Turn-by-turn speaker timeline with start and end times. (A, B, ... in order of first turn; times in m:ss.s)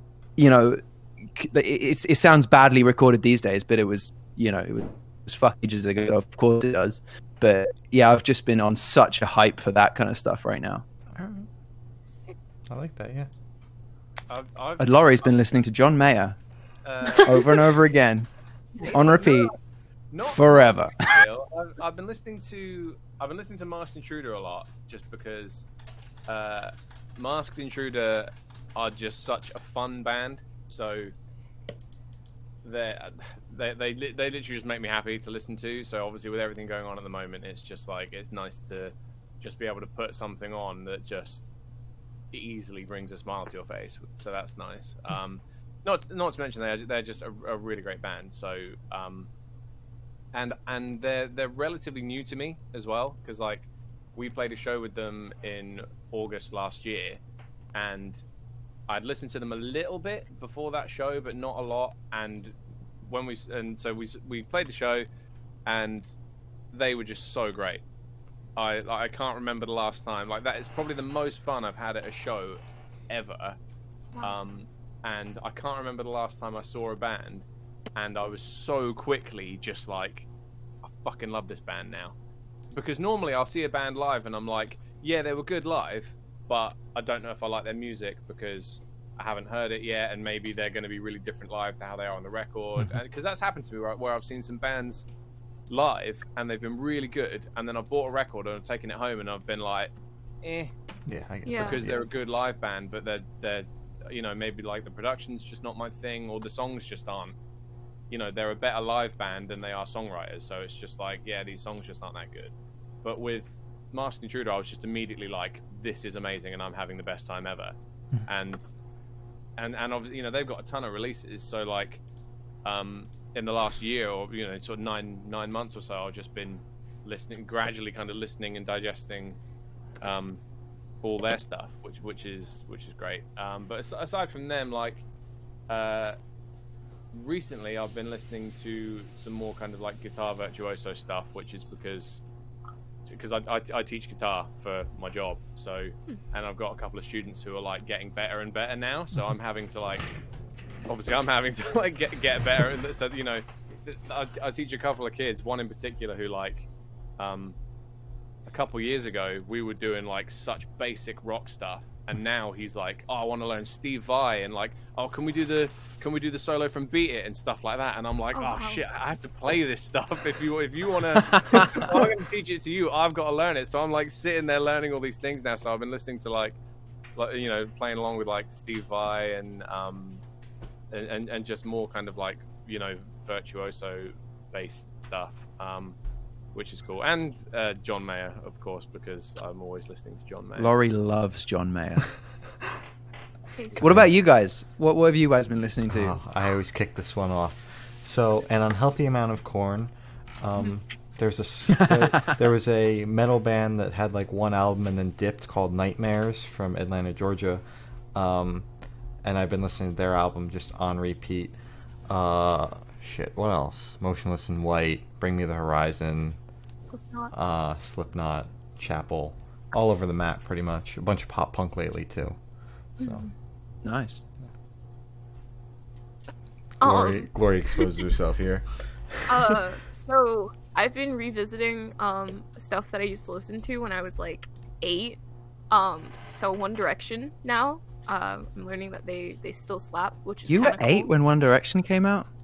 0:00.4-0:10.8 A
0:11.1-0:11.5 B
0:12.1-0:12.4 C
0:12.7-0:13.3 B
0:14.3-0:15.3 D
0:14.8-0:16.4 A
0:16.8-0:17.8 D
0:17.1-0:18.3 A
0:18.8-0:19.2 C
0:18.8-0:19.5 A
0:18.8-0:19.5 D
0:20.1-0:25.7 D
0:20.3-0:21.2 A
0:26.3-0:31.1 D
0:32.6-0:41.5 D
0:42.3-0:49.3 D
0:50.3-0:57.2 D
0:57.7-0:58.2 D
0:58.9-1:02.5 D
1:03.1-1:05.1 D
1:05.7-1:06.1 D
1:06.7-1:07.8 D
1:08.6-1:13.6 D
1:14.2-1:20.3 D
1:20.9-1:22.2 D
1:22.7-1:35.1 D
1:35.7-1:39.9 D
1:40.4-1:40.7 D
1:41.1-1:42.0 B
1:41.5-1:41.8 C
1:41.6-1:47.3 D
1:48.1-1:52.5 D
1:53.0-1:57.8 D
1:58.3-1:58.6 D
1:59.6-2:02.0 D
2:02.6-2:09.4 D
2:10.0-2:10.4 D
2:11.0-2:15.0 D
2:15.7-2:16.2 D
2:17.1-2:22.2 D
2:23.1-2:30.1 D
2:30.9-2:36.7 D
2:37.2-2:37.6 D
2:38.5-2:56.6 D
2:48.3-2:48.8 C
2:51.2-2:51.9 A
2:57.2-3:00.2 D
3:00.9-3:06.0 D
3:06.5-3:10.7 D
3:10.6-3:12.1 A
3:13.5-3:13.8 C
3:13.8-3:16.2 A
3:13.8-3:14.1 B
3:15.9-3:27.6 B
3:21.8-3:22.3 A
3:28.1-3:28.7 B
3:29.2-3:31.6 B
3:32.1-3:36.4 B
3:36.9-3:37.3 C
3:37.3-3:42.4 B
3:43.0-3:43.2 B
3:43.0-3:43.3 C
3:43.8-3:44.2 A
3:46.8-3:49.6 B
3:46.8-3:47.3 C
3:49.3-3:55.2 C
3:55.7-4:01.1 C
4:00.5-4:02.3 A